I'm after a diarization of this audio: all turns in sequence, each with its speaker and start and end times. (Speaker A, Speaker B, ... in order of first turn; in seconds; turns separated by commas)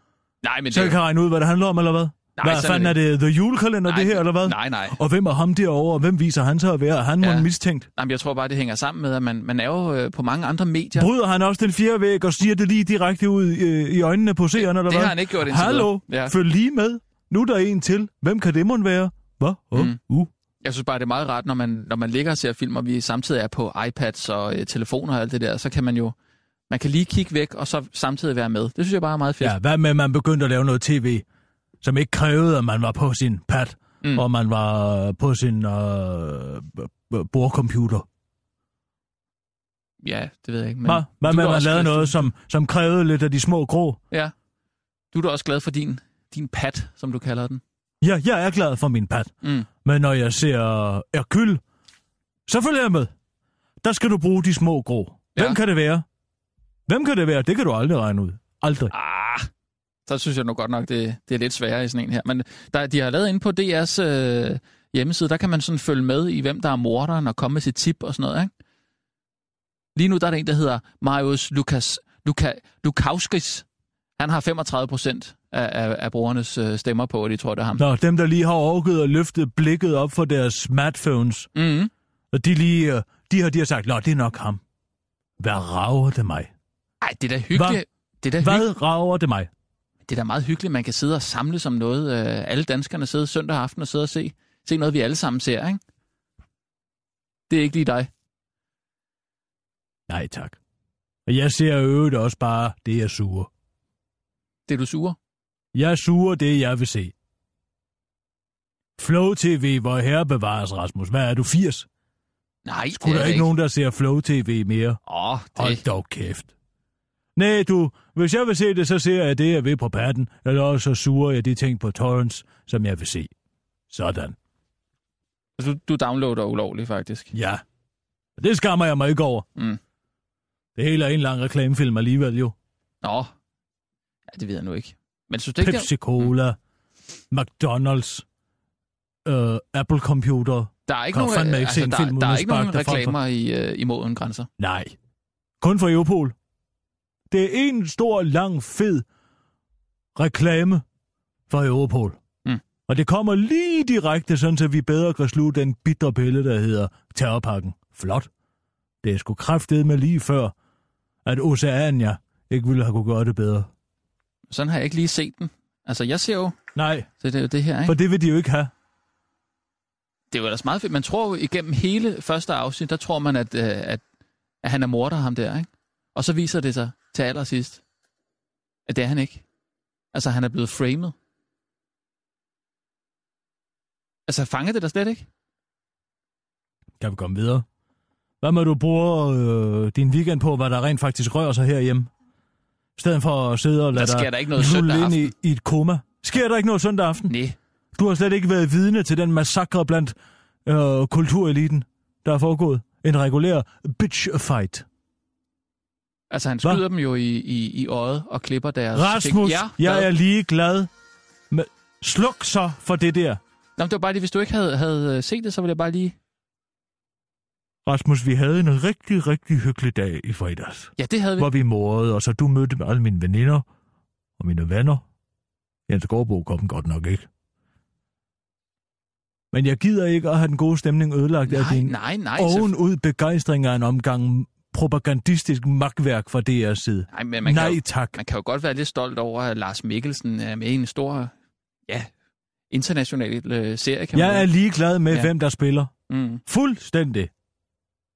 Speaker A: 0.4-1.0, Speaker B: 0.7-7.9, Speaker A: 2.4-3.0, Speaker A: 3.9-5.0, Speaker A: 7.2-11.1, Speaker B: 10.9-20.3, Speaker A: 14.6-16.3, Speaker A: 20.6-26.1, Speaker A: 26.7-29.6, Speaker B: 29.4-31.2, Speaker B: 31.8-38.0, Speaker A: 40.0-42.3, Speaker B: 40.9-44.0, Speaker A: 45.1-47.6, Speaker B: 48.0-51.6, Speaker A: 49.4-49.7, Speaker B: 52.5-53.1, Speaker B: 53.8-56.0, Speaker B: 56.9-58.9, Speaker A: 58.9-59.5, Speaker A: 60.1-68.5, Speaker A: 69.9-73.6, Speaker A: 74.2-77.8, Speaker B: 77.8-81.5, Speaker A: 81.5-81.9, Speaker B: 82.3-84.6, Speaker B: 85.4-86.5, Speaker A: 87.0-88.7, Speaker B: 87.5-87.8, Speaker B: 88.4-89.5, Speaker A: 90.1-95.8, Speaker A: 97.5-98.1, Speaker B: 100.1-100.6, Speaker B: 101.2-103.5, Speaker A: 104.7-105.2, Speaker B: 105.7-107.1, Speaker B: 109.0-111.9, Speaker A: 112.7-113.5, Speaker B: 113.0-115.0, Speaker A: 115.0-115.8, Speaker B: 115.5-116.5, Speaker B: 117.3-123.3, Speaker B: 123.9-124.3, Speaker A: 125.6-127.3, Speaker B: 127.3-127.6, Speaker B: 128.4-129.4, Speaker B: 130.8-132.5, Speaker A: 133.0-133.3, Speaker A: 134.3-136.3, Speaker B: 135.6-136.6, Speaker B: 137.3-138.2, Speaker B: 139.2-143.1, Speaker A: 140.9-144.5, Speaker B: 144.6-144.9, Speaker B: 145.6-146.3, Speaker B: 147.3-149.0, Speaker B: 150.2-150.8, Speaker B: 151.5-152.2, Speaker B: 152.9-158.3, Speaker B: 159.0-160.5, Speaker B: 161.2-163.7, Speaker A: 164.5-166.5, Speaker B: 166.7-167.1, Speaker A: 167.2-168.0, Speaker B: 167.8-168.7, Speaker A: 170.3-174.0, Speaker A: 174.6-177.8, Speaker A: 178.9-179.4, Speaker A: 180.1-181.1, Speaker A: 184.3-185.3, Speaker B: 187.0-187.7, Speaker B: 188.4-192.1, Speaker B: 193.0-197.3, Speaker A: 193.9-195.3, Speaker A: 197.3-197.6, Speaker B: 197.9-200.1, Speaker B: 200.7-204.8, Speaker A: 206.3-210.1, Speaker B: 208.9-210.9, Speaker B: 211.5-213.4, Speaker A: 213.8-216.1, Speaker B: 217.8-223.6, Speaker A: 221.0-221.5, Speaker B: 224.4-225.0, Speaker B: 225.9-227.3, Speaker B: 229.5-238.1, Speaker A: 231.5-232.8, Speaker A: 237.1-241.3, Speaker A: 242.7-244.5, Speaker B: 244.1-245.9, Speaker A: 246.1-246.4, Speaker B: 246.4-247.3